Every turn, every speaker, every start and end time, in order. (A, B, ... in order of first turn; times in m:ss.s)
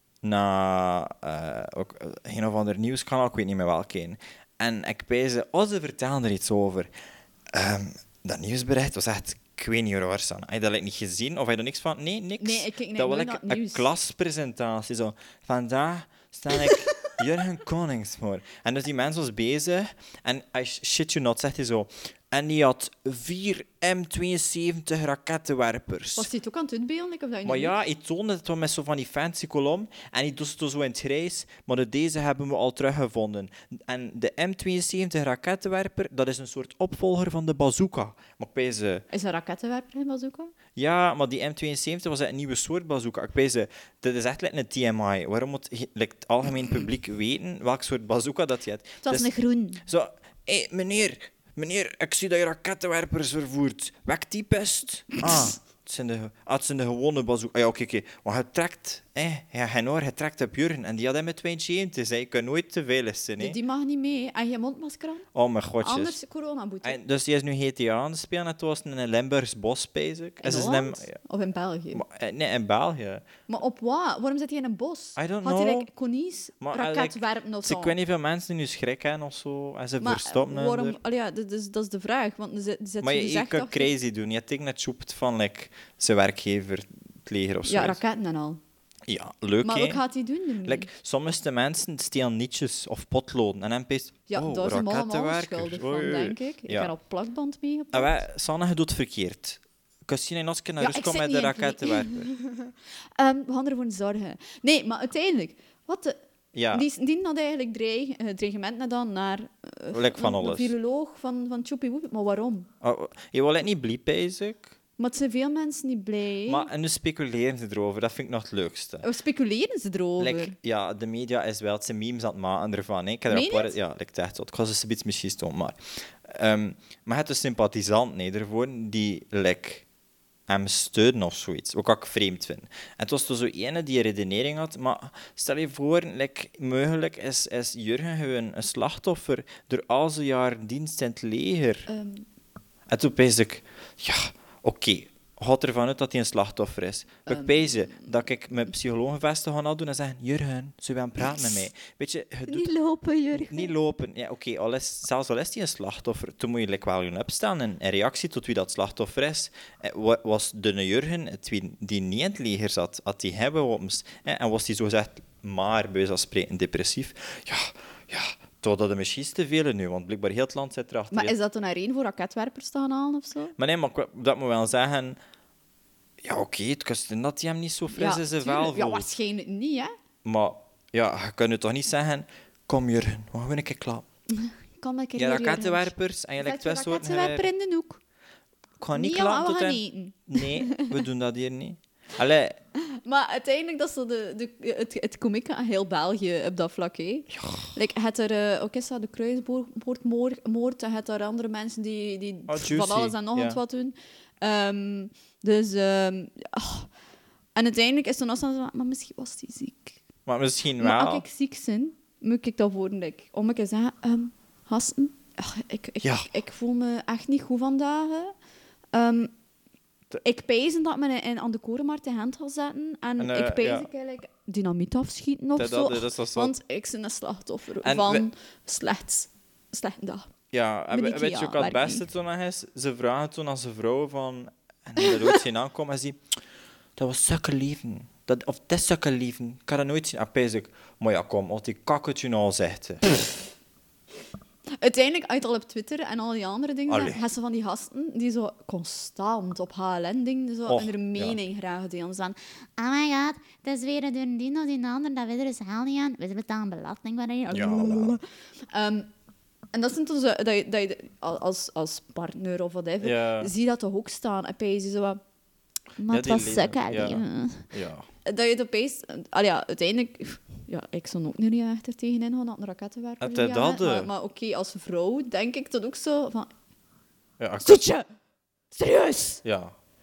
0:00.2-0:06.9 A
0:07.5-0:26.3 A
0:12.4-0:13.9 B
0:16.5-0:17.1 B
0:26.2-0:27.8 B
0:27.4-0:39.0 A
0:39.1-0:40.5 B
0:40.8-0:49.3 A
0:49.0-0:49.8 B
0:49.8-1:03.6 A
1:03.4-1:05.3 B
1:05.3-1:06.2 A
1:05.8-1:07.0 B
1:06.8-1:11.2 A
1:10.4-1:12.0 B
1:11.9-1:13.2 A
1:13.5-1:17.9 B
1:15.2-1:15.9 A
1:16.6-1:21.0 A
1:20.0-1:23.9 B
1:23.0-1:28.0 A
1:27.6-1:28.6 B
1:29.1-1:30.0 A
1:29.6-1:30.9 B
1:30.6-1:36.9 A
1:34.3-1:38.2 B
1:37.9-1:42.3 A
1:40.8-1:46.1 B
1:46.5-1:46.9 A
1:46.7-1:52.7 B
1:49.9-1:50.7 A
1:52.8-1:54.7 A
1:55.0-1:56.7 B
1:56.5-1:59.0 A
1:59.0-2:00.5 B
2:00.2-2:09.8 A
2:03.3-2:03.8 B
2:10.5-2:21.9 A
2:21.9-2:22.2 B
2:22.9-2:32.7 A
2:27.3-2:28.1 B
2:32.4-2:33.7 B
2:33.3-2:51.3 A
2:51.1-2:53.5 B
2:53.6-2:55.2 A
2:56.2-2:59.1 A
2:57.9-2:59.9 B
3:00.2-3:04.0 A
3:04.3-3:08.0 B
3:05.2-3:07.5 A
3:08.8-3:12.6 A
3:08.9-3:11.0 B
3:13.0-3:26.9 B
3:17.3-3:17.7 A
3:22.5-3:23.6 A
3:27.6-3:30.0 B
3:30.2-3:31.2 A
3:30.8-3:38.3 B
3:36.0-3:36.3 A
3:38.9-3:39.3 B
3:40.2-3:50.3 B
3:43.2-3:43.9 A
3:45.6-3:46.5 A
3:47.8-3:48.2 A
3:50.5-3:56.3 A
3:50.9-3:52.0 B
3:55.0-3:55.4 B
3:57.0-4:03.0 A
4:04.7-4:12.4 B
4:06.9-4:07.2 A
4:10.6-4:11.4 A
4:12.8-4:17.7 C
4:17.4-4:19.1 B
4:17.5-4:18.2 A
4:19.7-4:25.2 B
4:23.0-4:23.5 A
4:26.0-4:27.7 B
4:26.1-4:28.0 A
4:28.2-4:36.5 B
4:33.2-4:34.1 A
4:37.4-4:37.8 A
4:37.6-4:38.1 B
4:38.7-4:39.4 B
4:39.4-4:39.7 A